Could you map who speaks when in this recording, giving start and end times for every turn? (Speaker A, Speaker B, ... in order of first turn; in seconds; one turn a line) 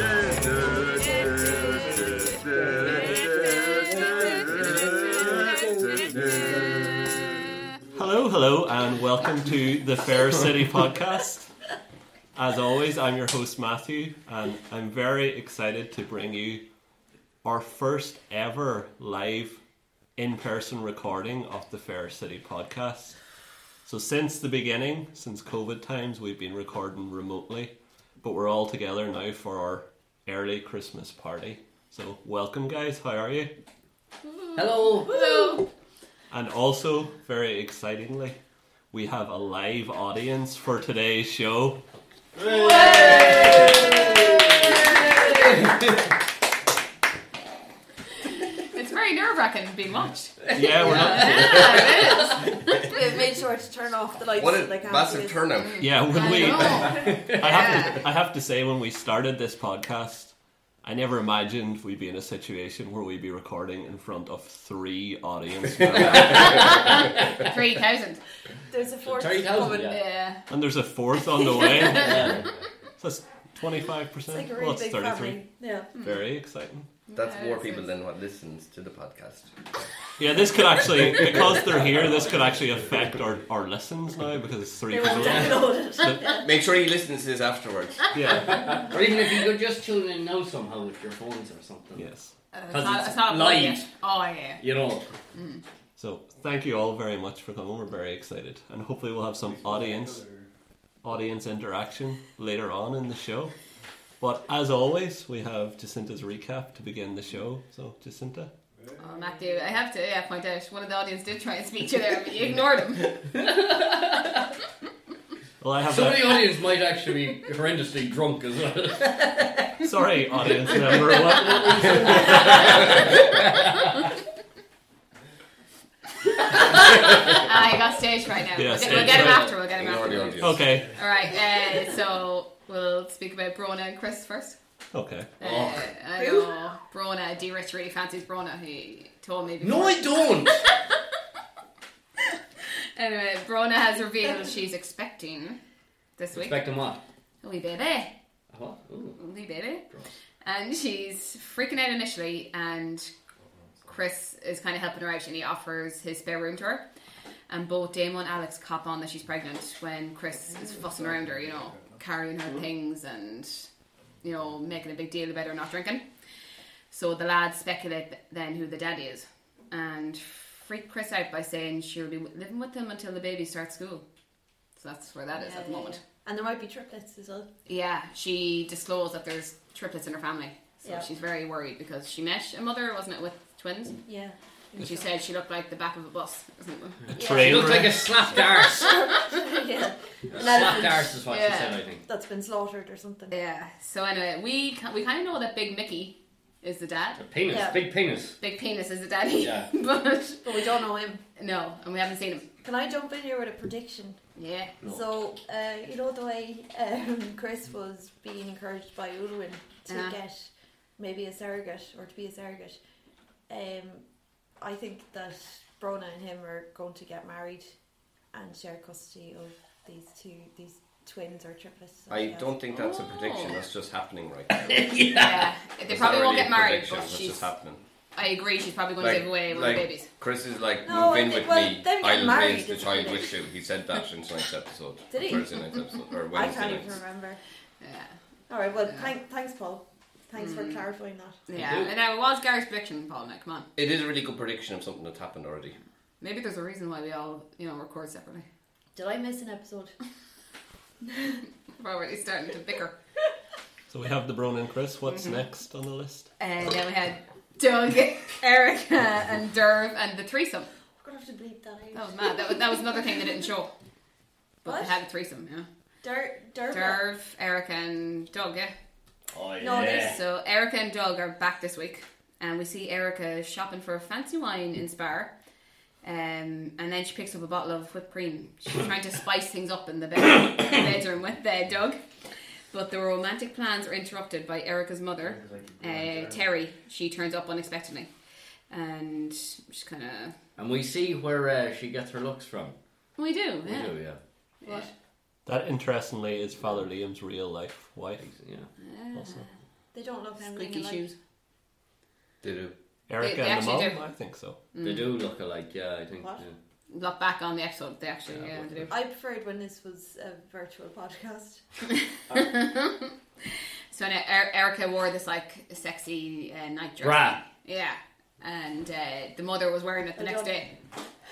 Speaker A: 1.0-2.3
Speaker B: 1.3-1.9
Speaker C: 2.9-3.4
Speaker A: 3.0-7.3
Speaker C: 7.9-11.5
Speaker C: 12.3-16.6
Speaker C: 17.4-19.6
Speaker C: 20.1-23.1
Speaker C: 23.8-33.5
Speaker A: 34.3-35.7
Speaker D: 34.5-35.6
Speaker C: 36.3-38.4
Speaker C: 38.9-41.8
Speaker D: 42.4-46.0
Speaker A: 42.5-44.3
Speaker A: 48.2-52.9
Speaker D: 50.4-52.5
Speaker C: 50.5-52.2
Speaker B: 52.8-55.4
Speaker E: 54.4-55.9
Speaker A: 55.6-58.0
Speaker C: 55.8-67.1
Speaker D: 56.9-57.4
Speaker A: 66.2-68.2
Speaker B: 68.7-70.0
Speaker D: 69.0-70.0
Speaker A: 69.8-70.4
Speaker C: 70.5-75.4
Speaker A: 71.6-72.3
Speaker D: 71.9-72.5
Speaker B: 74.3-75.9
Speaker A: 76.0-76.2
Speaker C: 76.0-76.8
Speaker A: 77.1-77.9
Speaker E: 77.1-79.8
Speaker C: 80.2-86.4
Speaker B: 84.9-86.5
Speaker D: 85.2-85.5
Speaker E: 86.4-88.2
Speaker C: 88.1-88.9
Speaker D: 88.5-92.0
Speaker C: 91.9-92.3
Speaker A: 92.5-94.6
Speaker D: 92.7-93.9
Speaker D: 94.6-95.1
Speaker A: 95.3-95.6
Speaker C: 96.0-100.3
Speaker C: 101.0-103.5
Speaker C: 104.2-108.5
Speaker A: 109.0-113.2
Speaker D: 113.3-114.4
Speaker C: 115.6-116.5
Speaker D: 115.9-119.7
Speaker C: 119.8-123.1
Speaker D: 120.7-120.9
Speaker D: 121.8-123.6
Speaker A: 126.5-134.6
Speaker C: 128.5-129.6
Speaker D: 128.8-130.1
Speaker E: 129.7-130.7
Speaker C: 130.4-130.9
Speaker C: 134.9-135.3
Speaker A: 135.4-140.9
Speaker D: 135.4-135.8
Speaker B: 136.2-136.5
Speaker D: 139.6-140.7
Speaker A: 142.9-145.6
Speaker A: 146.2-146.6
Speaker D: 146.3-147.0
Speaker A: 147.4-148.1
Speaker D: 148.5-149.2
Speaker A: 149.2-149.8
Speaker A: 150.4-153.1
Speaker A: 153.8-156.8
Speaker A: 157.5-163.7
Speaker A: 164.2-166.0
Speaker A: 166.9-174.0
Speaker A: 174.8-176.0
Speaker B: 175.3-177.5
Speaker A: 177.7-184.0
Speaker B: 184.1-185.0
Speaker A: 184.8-187.0
Speaker C: 187.1-188.1
Speaker B: 187.1-187.9
Speaker D: 187.3-189.0
Speaker B: 188.6-191.2
Speaker D: 190.3-192.0
Speaker A: 191.3-191.8
Speaker B: 192.1-193.3
Speaker A: 193.3-197.2
Speaker D: 197.2-198.4
Speaker B: 197.5-197.8
Speaker A: 198.4-200.8
Speaker D: 199.4-199.7
Speaker B: 200.4-201.2
Speaker A: 201.3-202.5
Speaker B: 202.6-204.2
Speaker A: 204.3-204.7
Speaker B: 204.8-212.8
Speaker A: 209.9-210.2
Speaker B: 213.5-214.0
Speaker B: 214.6-217.7
Speaker B: 218.3-222.5
Speaker E: 222.1-224.9
Speaker A: 222.7-223.6
Speaker D: 224.5-225.5
Speaker A: 225.1-227.5
Speaker E: 225.9-227.8
Speaker A: 228.1-230.1
Speaker E: 229.0-236.9
Speaker B: 230.8-233.3
Speaker B: 235.1-235.6
Speaker B: 236.3-237.4
Speaker A: 237.8-238.1
Speaker B: 238.5-241.4
Speaker A: 240.4-240.8
Speaker A: 241.5-243.7
Speaker D: 241.5-241.9
Speaker E: 243.8-245.8
Speaker A: 246.2-248.4
Speaker B: 248.9-249.9
Speaker A: 251.7-252.9
Speaker C: 253.9-256.3
Speaker A: 255.1-255.4
Speaker A: 256.4-260.7
Speaker B: 261.0-262.8
Speaker A: 261.9-263.7
Speaker A: 264.6-265.7
Speaker B: 264.6-265.0
Speaker B: 266.0-267.0
Speaker A: 266.7-268.7
Speaker D: 269.3-270.2
Speaker B: 269.6-270.2
Speaker A: 269.7-275.3
Speaker A: 276.0-282.0
Speaker A: 282.7-288.1
Speaker A: 288.7-290.3
Speaker D: 290.6-292.8
Speaker A: 293.2-294.0
Speaker D: 293.6-294.2
Speaker A: 294.6-294.9
Speaker C: 295.4-298.2
Speaker D: 298.2-298.7
Speaker A: 298.8-299.5
Speaker C: 299.1-299.4
Speaker B: 299.9-301.1
Speaker A: 300.4-301.1
Speaker E: 302.4-302.7
Speaker C: 303.1-304.6
Speaker A: 303.2-304.0
Speaker A: 304.7-305.1
Speaker D: 304.8-306.6
Speaker A: 306.9-309.0
Speaker D: 308.3-308.9
Speaker B: 308.9-311.6
Speaker A: 312.3-313.1
Speaker A: 313.9-320.7
Speaker D: 317.0-317.4
Speaker B: 320.2-320.5